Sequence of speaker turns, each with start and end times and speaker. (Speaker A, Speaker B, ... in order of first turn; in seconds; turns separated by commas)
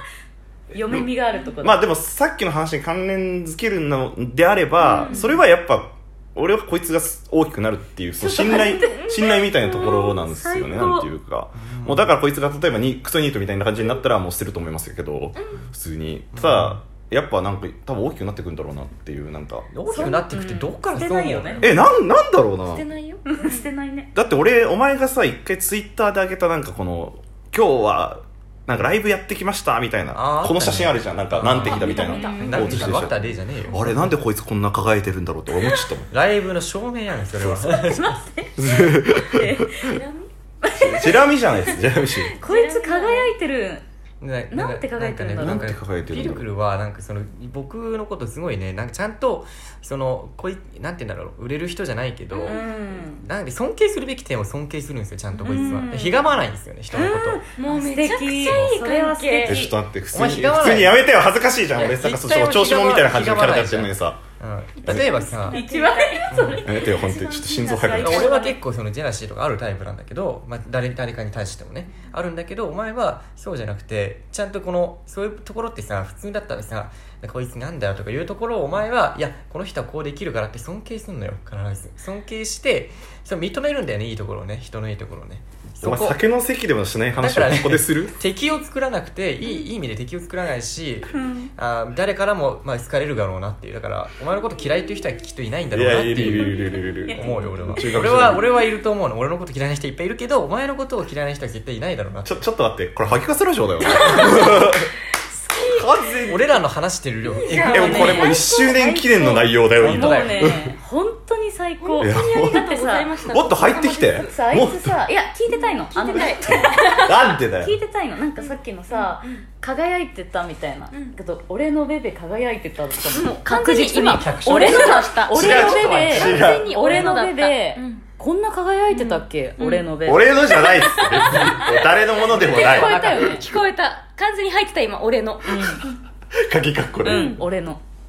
Speaker A: 0.7-1.8, Speaker B: 1.6-19.7, Speaker C: 4.8-5.3, Speaker D: 5.1-5.4, Speaker A: 8.2-11.1, Speaker D: 11.5-12.1, Speaker D: 16.3-16.8, Speaker D: 19.7-21.8, Speaker A: 19.9-21.7, Speaker B: 21.6-22.8, Speaker C: 22.7-23.7, Speaker A: 23.2-24.1, Speaker B: 24.1-36.1, Speaker D: 30.1-34.1, Speaker C: 31.6-33.0, Speaker A: 32.1-32.6, Speaker D: 36.1-38.2, Speaker A: 37.4-39.8, Speaker B: 38.6-39.9, Speaker C: 39.8-40.3, Speaker A: 40.6-41.2, Speaker B: 40.7-42.3, Speaker C: 42.1-43.3, Speaker A: 42.4-43.8, Speaker D: 44.2-57.4, Speaker A: 44.5-45.7, Speaker B: 45.3-46.5, Speaker C: 52.3-52.7, Speaker A: 52.4-53.2, Speaker C: 55.3-55.9, Speaker A: 55.4-56.3, Speaker A: 56.9-59.7, Speaker C: 57.5-59.6, Speaker D: 58.4-58.8, Speaker B: 59.4-64.2, Speaker D: 60.1-61.1, Speaker D: 61.7-65.6, Speaker B: 64.8-65.1, Speaker A: 65.3-68.6, Speaker C: 65.4-66.3, Speaker D: 66.3-66.7, Speaker B: 66.6-68.3, Speaker D: 68.0-86.2, Speaker B: 85.8-88.1, Speaker D: 87.2-96.6, Speaker A: 91.1-91.5, Speaker B: 95.7-98.4, Speaker A: 96.1-98.6, Speaker D: 97.1-102.4, Speaker B: 102.2-104.9, Speaker A: 103.9-104.7, Speaker B: 105.7-106.6, Speaker D: 106.2-108.2, Speaker C: 107.3-108.3, Speaker A: 107.5-113.1, Speaker B: 107.6-110.8, Speaker D: 109.8-110.5, Speaker C: 111.8-114.4, Speaker B: 112.0-112.6, Speaker B: 113.2-115.0, Speaker A: 114.2-131.6, Speaker C: 115.5-117.1, Speaker B: 117.0-117.8, Speaker C: 118.4-119.4, Speaker C: 123.1-128.0, Speaker D: 123.9-125.0, Speaker B: 124.7-126.7, Speaker C: 128.9-129.9, Speaker B: 130.0-133.2, Speaker C: 130.5-135.8, Speaker A: 132.3-133.4, Speaker A: 135.4-135.8, Speaker B: 136.3-137.4, Speaker C: 137.0-137.4, Speaker A: 137.0-137.8